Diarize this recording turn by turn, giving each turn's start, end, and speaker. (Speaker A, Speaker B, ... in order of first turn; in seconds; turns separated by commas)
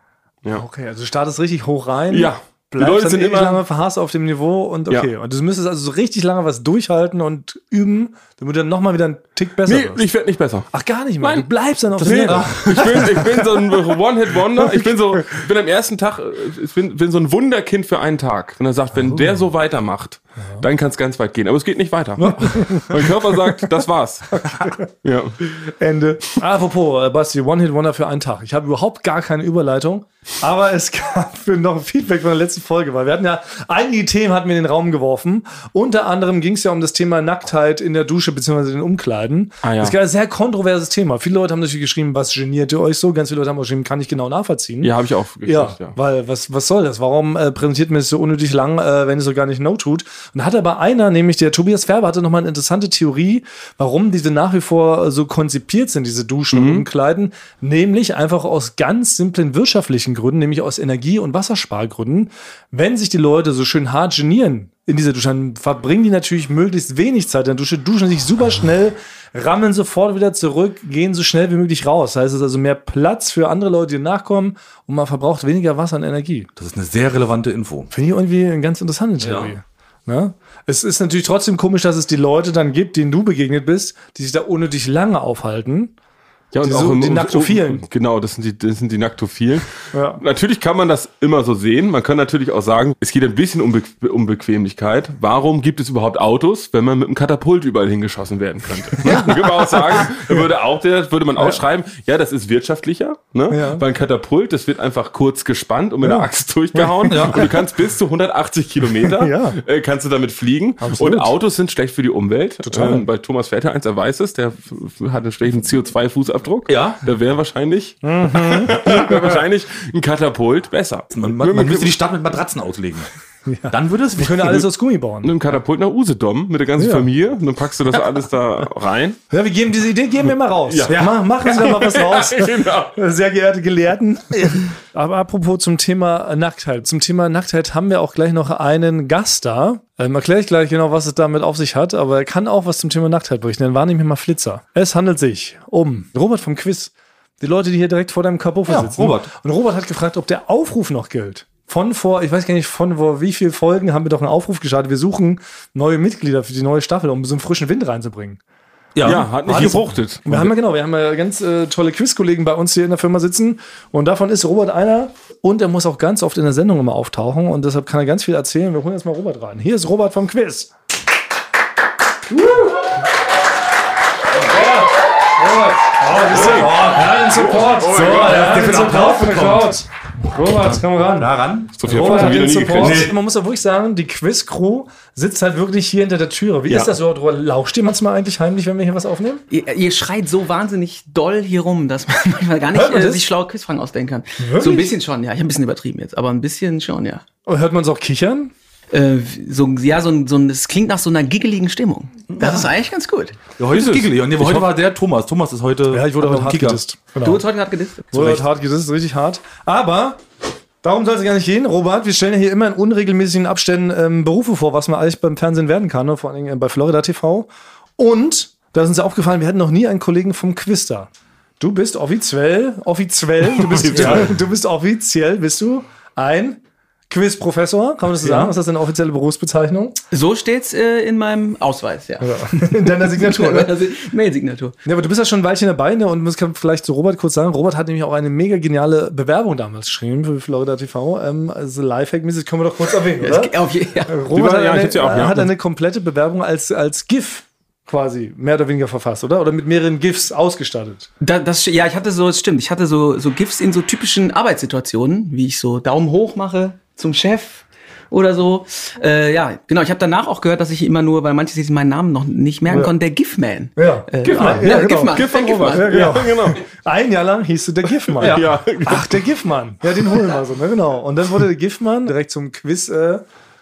Speaker A: 0.6-10.0, Speaker B: 2.1-3.6, Speaker B: 9.7-10.7, Speaker A: 10.7-13.4, Speaker B: 11.2-25.4, Speaker C: 12.2-13.2, Speaker A: 14.6-15.2, Speaker A: 22.2-23.6, Speaker A: 24.3-24.9, Speaker A: 25.5-44.9, Speaker B: 39.6-40.0, Speaker B: 44.8-46.0, Speaker A: 45.5-76.5, Speaker B: 56.5-56.9, Speaker C: 76.5-77.9, Speaker A: 77.9-85.9, Speaker C: 79.2-79.5, Speaker B: 86.5-121.9, Speaker A: 86.6-87.8, Speaker A: 89.9-90.2, Speaker A: 99.0-100.4, Speaker A: 101.4-101.6, Speaker A: 103.5-103.8, Speaker A: 106.0-107.5, Speaker C: 107.1-107.5, Speaker A: 109.1-109.6, Speaker A: 110.8-111.3, Speaker A: 112.6-113.0, Speaker C: 116.7-117.0, Speaker A: 118.0-119.4, Speaker C: 121.1-123.1, Speaker A: 123.5-125.4, Speaker C: 123.7-124.6, Speaker B: 125.2-129.2, Speaker A: 126.8-127.1, Speaker A: 129.3-158.4, Speaker B: 130.7-132.9, Speaker C: 148.7-149.3, Speaker C: 158.9-159.8, Speaker B: 159.0-160.5, Speaker A: 160.2-170.7, Speaker A: 172.3-172.7, Speaker A: 174.5-189.4, Speaker C: 176.2-179.8, Speaker B: 176.3-178.7, Speaker C: 180.6-183.2, Speaker B: 181.8-183.1, Speaker D: 189.5-197.2, Speaker A: 192.7-193.2, Speaker A: 194.4-194.9, Speaker A: 197.4-198.5, Speaker D: 198.9-203.4, Speaker C: 202.3-202.7, Speaker C: 203.6-206.8, Speaker B: 203.7-204.7, Speaker A: 205.9-207.4, Speaker D: 207.2-208.3, Speaker A: 208.1-210.2, Speaker A: 210.8-230.0, Speaker B: 223.6-224.3, Speaker C: 223.9-224.2, Speaker C: 228.2-228.5, Speaker D: 230.1-234.8, Speaker A: 232.2-233.7, Speaker A: 234.8-243.5, Speaker D: 243.2-244.2, Speaker A: 244.1-251.1, Speaker B: 244.3-245.5, Speaker D: 251.2-266.1, Speaker A: 262.7-262.9, Speaker A: 263.8-273.2, Speaker B: 264.2-266.6, Speaker B: 268.2-269.2